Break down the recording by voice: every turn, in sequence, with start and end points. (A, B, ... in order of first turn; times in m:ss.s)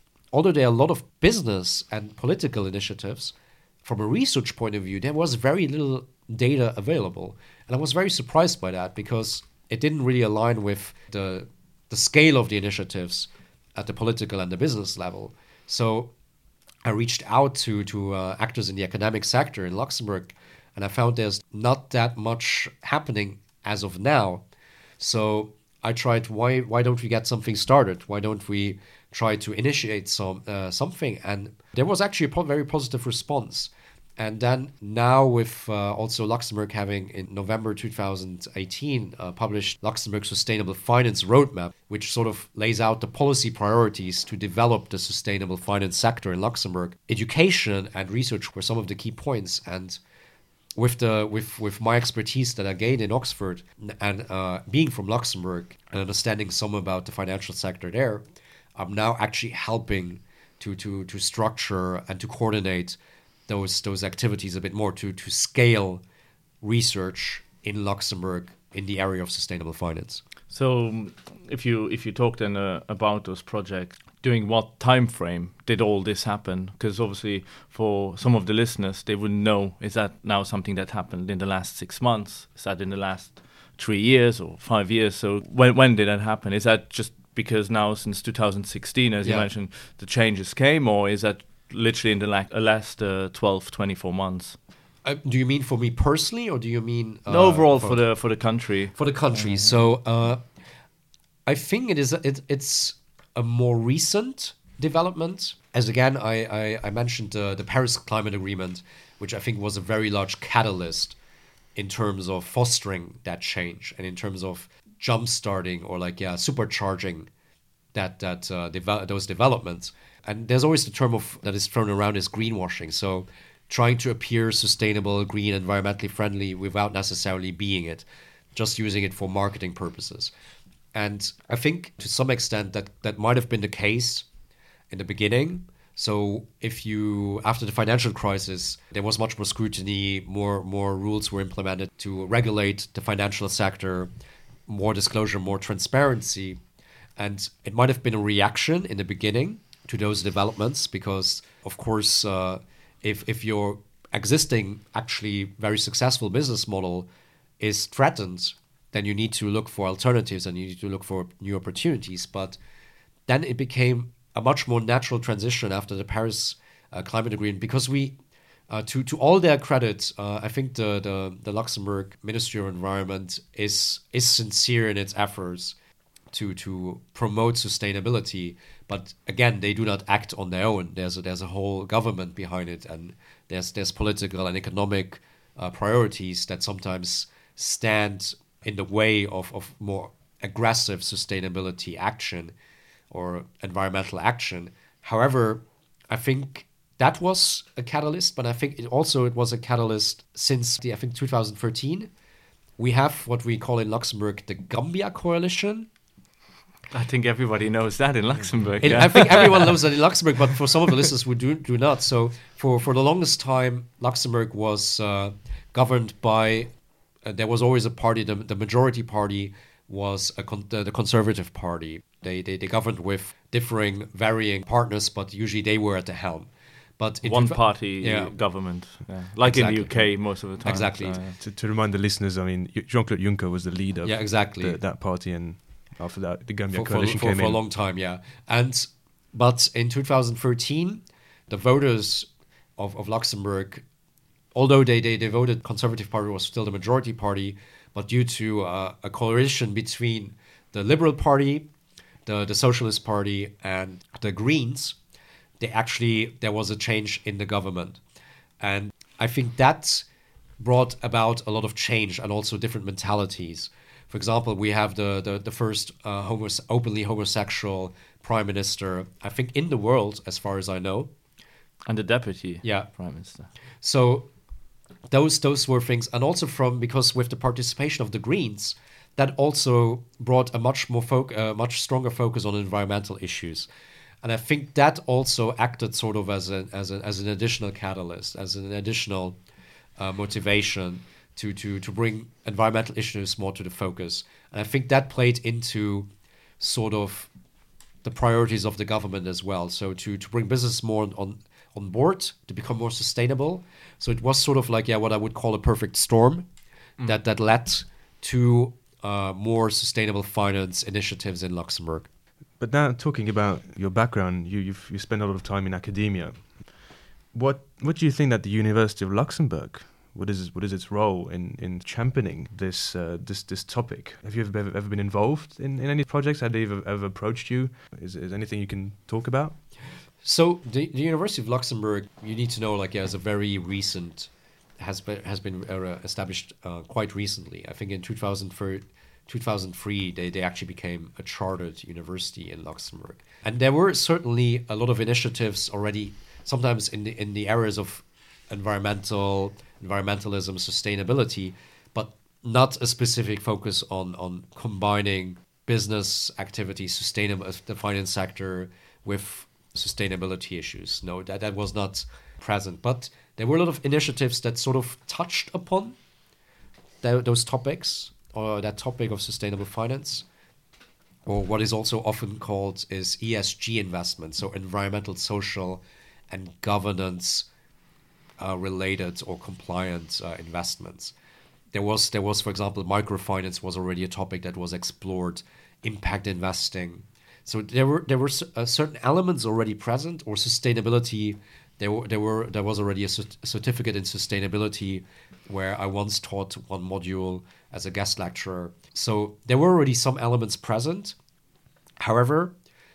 0:00.3-0:16.1 A
0:16.8-0:24.4 A
0:25.0-0:50.0 A
0:50.8-0:58.2 A
0:58.8-1:06.0 A
1:06.6-1:10.2 A
1:10.5-1:34.6 B
1:29.2-1:29.5 A
1:35.0-1:38.0 A
1:37.3-1:39.7 B
1:38.9-1:40.4 A
1:41.4-1:51.1 A
1:51.7-1:57.3 A
1:57.9-2:10.3 A
2:10.9-2:14.2 A
2:14.9-2:24.1 A
2:24.7-2:26.6 A
2:27.2-2:37.1 A
2:37.6-2:42.6 A
2:43.3-2:48.2 A
2:48.7-2:55.8 A
2:56.3-3:12.5 A
3:13.1-3:22.1 A
3:22.8-3:25.9 A
3:26.9-3:29.8 B
3:28.4-3:28.7 C
3:28.8-3:36.7 A
3:37.2-3:48.3 A
3:47.2-3:51.4 B
3:49.4-3:51.2 A
3:51.4-3:57.6 C
3:54.0-3:54.8 A
3:56.7-4:03.8 A
4:04.5-4:11.6 A
4:12.2-4:15.0 A
4:15.6-4:18.0 A
4:18.6-4:20.0 A
4:20.6-4:31.1 A
4:31.8-4:33.5 B
4:32.6-4:32.9 A
4:33.8-4:34.3 A
4:35.1-4:43.7 A
4:44.2-4:49.4 A
4:50.0-4:56.1 A
4:56.6-4:57.3 A
4:58.0-5:06.5 A
5:07.0-5:12.1 A
5:12.6-5:16.7 C
5:17.3-5:29.6 C
5:30.2-6:06.0 A
6:07.0-6:10.2 A
6:11.2-6:17.4 A
6:18.4-6:21.1 A
6:21.7-6:41.1 A
6:42.0-6:42.5 A